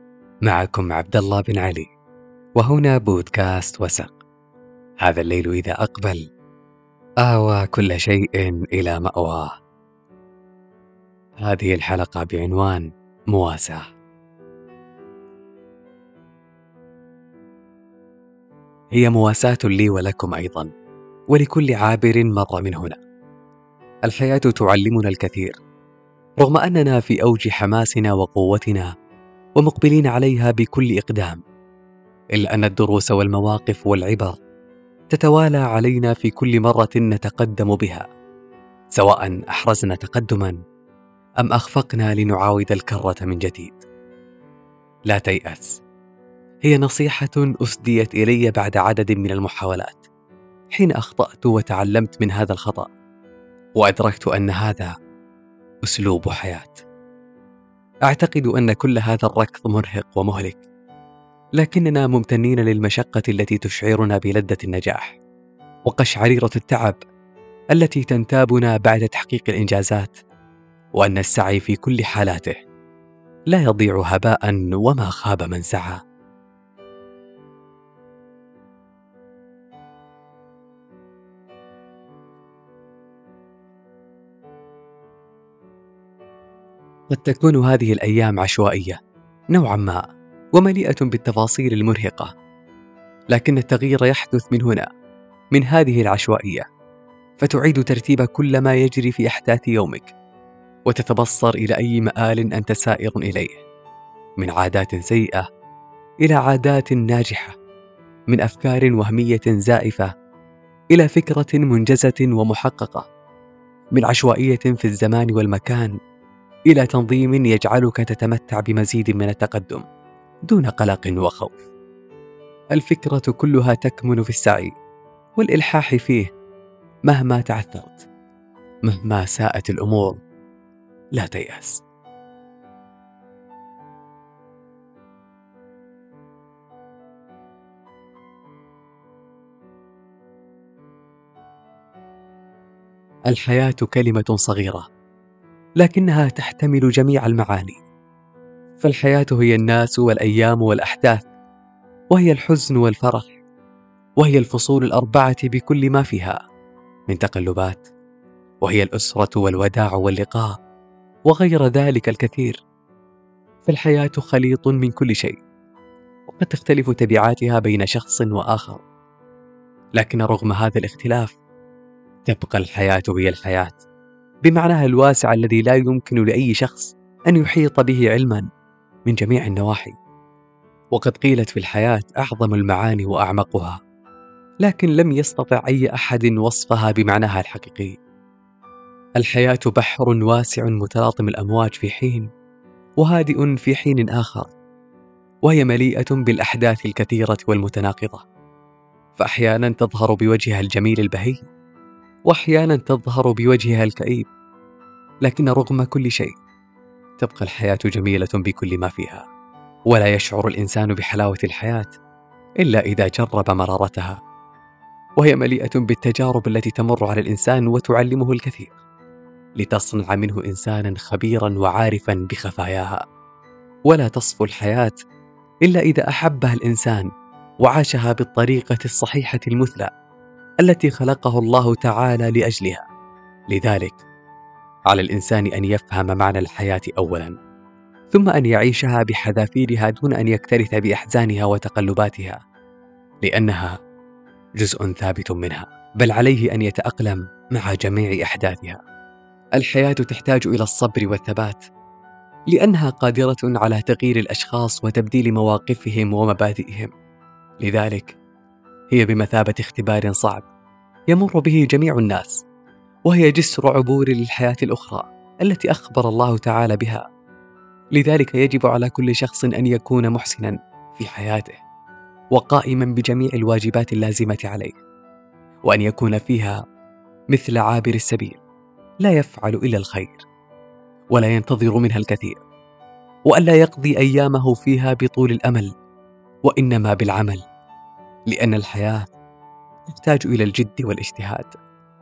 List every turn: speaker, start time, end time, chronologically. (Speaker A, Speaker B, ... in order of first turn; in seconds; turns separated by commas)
Speaker A: 0.5-1.9, Speaker A: 2.6-4.1, Speaker A: 5.0-6.2, Speaker A: 7.2-9.5, Speaker A: 11.4-13.9, Speaker A: 18.9-20.7, Speaker A: 21.3-23.0, Speaker A: 24.1-25.6, Speaker A: 26.4-28.9, Speaker A: 29.6-31.4, Speaker A: 32.4-34.4, Speaker A: 35.1-38.0, Speaker A: 39.0-40.6, Speaker A: 41.4-43.9, Speaker A: 45.1-45.8, Speaker A: 46.6-50.1, Speaker A: 50.7-52.9, Speaker A: 53.8-54.9, Speaker A: 55.8-56.8, Speaker A: 58.1-60.6, Speaker A: 61.6-65.2, Speaker A: 65.9-67.0, Speaker A: 67.7-70.2, Speaker A: 71.0-72.6, Speaker A: 73.5-76.0, Speaker A: 87.1-89.0, Speaker A: 89.5-90.0, Speaker A: 90.5-92.3, Speaker A: 93.3-94.9, Speaker A: 95.5-96.7, Speaker A: 97.4-100.1, Speaker A: 100.9-103.6, Speaker A: 104.4-105.5, Speaker A: 106.2-107.5, Speaker A: 108.3-110.1, Speaker A: 110.9-113.0, Speaker A: 113.9-115.9, Speaker A: 116.7-119.8, Speaker A: 120.5-121.7, Speaker A: 122.7-124.7, Speaker A: 125.4-126.3, Speaker A: 127.1-128.1, Speaker A: 128.9-130.2, Speaker A: 131.2-131.8, Speaker A: 143.3-144.8, Speaker A: 145.8-147.8, Speaker A: 148.8-151.3, Speaker A: 152.1-153.4, Speaker A: 154.2-156.4, Speaker A: 157.1-157.9, Speaker A: 158.6-160.5, Speaker A: 161.3-162.6, Speaker A: 163.7-165.4, Speaker A: 166.3-168.8, Speaker A: 170.0-171.3, Speaker A: 172.3-173.8, Speaker A: 174.4-178.4, Speaker A: 179.1-179.9, Speaker A: 180.9-183.8, Speaker A: 184.6-187.9, Speaker A: 189.2-192.3, Speaker A: 193.0-194.5, Speaker A: 195.4-198.2, Speaker A: 199.2-201.4, Speaker A: 202.3-204.3, Speaker A: 205.2-206.3, Speaker A: 207.2-209.2, Speaker A: 209.9-211.9, Speaker A: 212.6-214.2, Speaker A: 215.2-218.8, Speaker A: 219.6-223.0, Speaker A: 223.9-225.0, Speaker A: 225.6-227.1, Speaker A: 227.6-229.9, Speaker A: 230.6-232.8, Speaker A: 233.5-234.0, Speaker A: 234.9-237.4, Speaker A: 238.1-242.4, Speaker A: 243.2-243.8, Speaker A: 244.6-248.8, Speaker A: 249.6-251.7, Speaker A: 252.5-256.9, Speaker A: 257.6-258.1, Speaker A: 258.9-260.4, Speaker A: 261.1-262.4, Speaker A: 263.1-267.0, Speaker A: 267.9-271.6, Speaker A: 272.3-274.8, Speaker A: 275.6-276.6, Speaker A: 277.3-278.4, Speaker A: 279.0-280.2, Speaker A: 281.1-282.4, Speaker A: 283.3-285.7, Speaker A: 286.4-287.4, Speaker A: 288.3-289.0, Speaker A: 289.9-291.6